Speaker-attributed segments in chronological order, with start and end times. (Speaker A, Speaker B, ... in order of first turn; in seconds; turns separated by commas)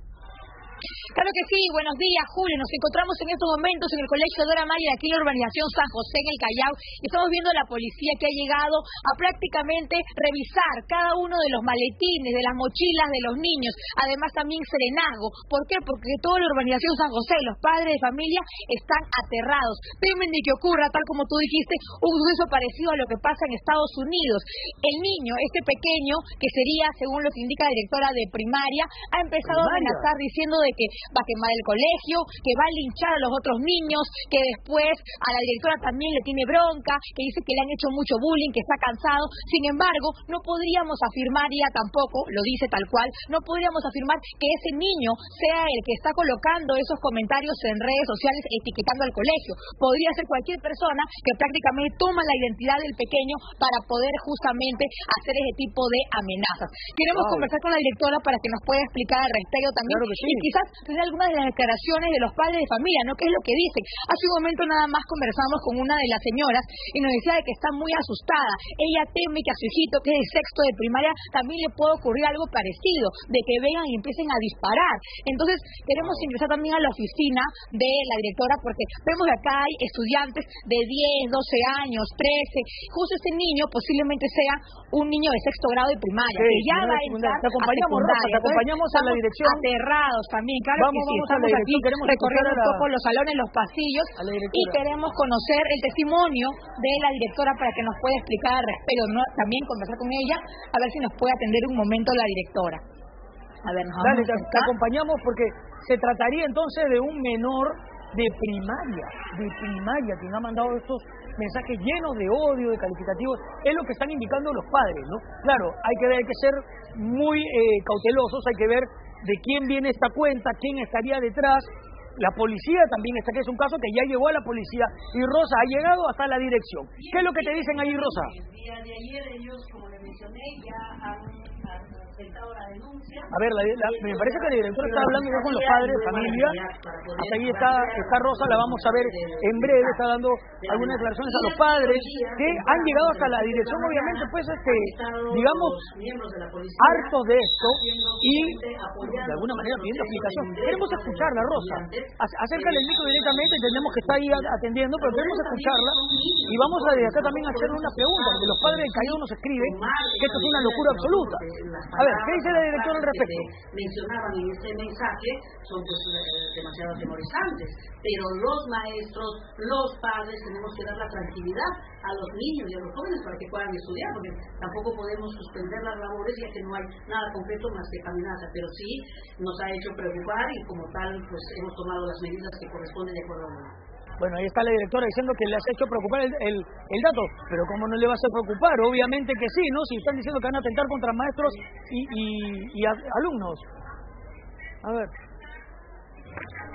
Speaker A: 1.1-102.8, Speaker B: 29.4-30.1, Speaker B: 57.1-57.5, Speaker B: 59.9-60.5, Speaker B: 76.0-76.3, Speaker B: 86.4-89.7, Speaker B: 90.8-92.9, Speaker B: 94.2-94.8, Speaker A: 103.6-104.7, Speaker B: 104.0-128.3, Speaker C: 127.0-140.1, Speaker B: 133.3-136.6, Speaker B: 137.2-145.8, Speaker C: 140.6-183.8, Speaker B: 146.8-156.0, Speaker B: 156.5-161.4, Speaker B: 162.0-163.5, Speaker B: 184.2-193.7, Speaker B: 194.8-195.1